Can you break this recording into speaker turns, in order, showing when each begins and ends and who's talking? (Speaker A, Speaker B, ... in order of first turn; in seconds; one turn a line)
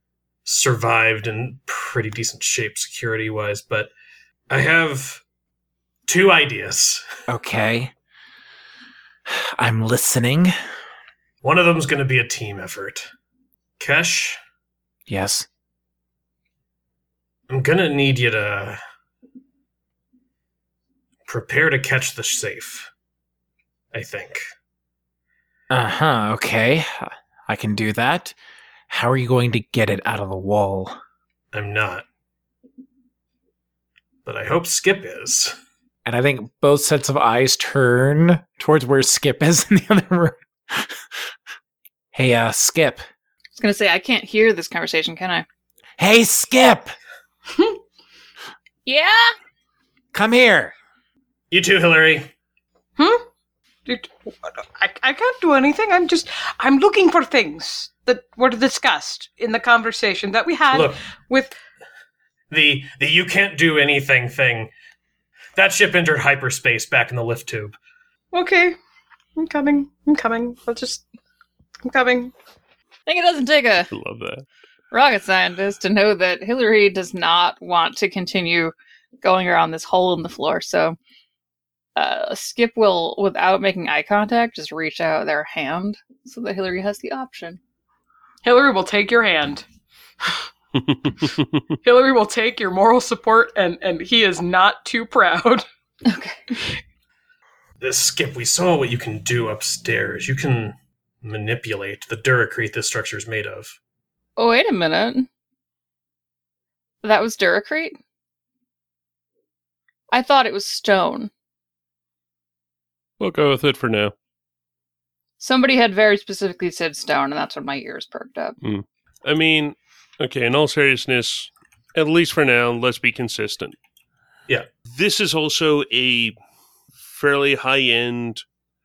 Speaker A: 0.5-3.9
Speaker A: 4.5-5.2
Speaker A: 6.1-7.0
Speaker B: 7.3-7.9
Speaker B: 9.3-10.5
Speaker A: 11.4-13.1
Speaker A: 13.8-14.4
Speaker B: 15.1-15.5
Speaker A: 17.5-18.8
Speaker A: 21.3-22.9
Speaker A: 23.9-24.4
Speaker B: 25.7-28.4
Speaker B: 28.9-31.0
Speaker A: 31.5-32.1
Speaker A: 34.3-35.6
Speaker B: 36.0-41.0
Speaker B: 42.1-43.0
Speaker C: 43.6-45.5
Speaker B: 46.0-47.0
Speaker D: 47.5-47.8
Speaker C: 48.9-49.3
Speaker B: 50.1-50.7
Speaker A: 51.5-52.3
Speaker D: 53.0-53.2
Speaker D: 53.9-61.5
Speaker A: 60.7-61.0
Speaker A: 62.5-64.7
Speaker A: 65.5-67.8
Speaker D: 68.3-68.8
Speaker D: 69.4-71.0
Speaker D: 71.8-72.3
Speaker C: 73.1-73.9
Speaker E: 73.9-74.5
Speaker C: 74.9-81.0
Speaker C: 82.0-87.6
Speaker D: 88.4-89.7
Speaker D: 91.8-95.7
Speaker C: 96.1-96.5
Speaker A: 97.8-103.8
Speaker C: 104.4-105.3
Speaker C: 107.0-108.0
Speaker C: 110.1-111.3
Speaker E: 113.2-114.1
Speaker C: 115.4-118.6
Speaker E: 118.6-123.8
Speaker E: 124.9-126.3
Speaker E: 127.0-128.4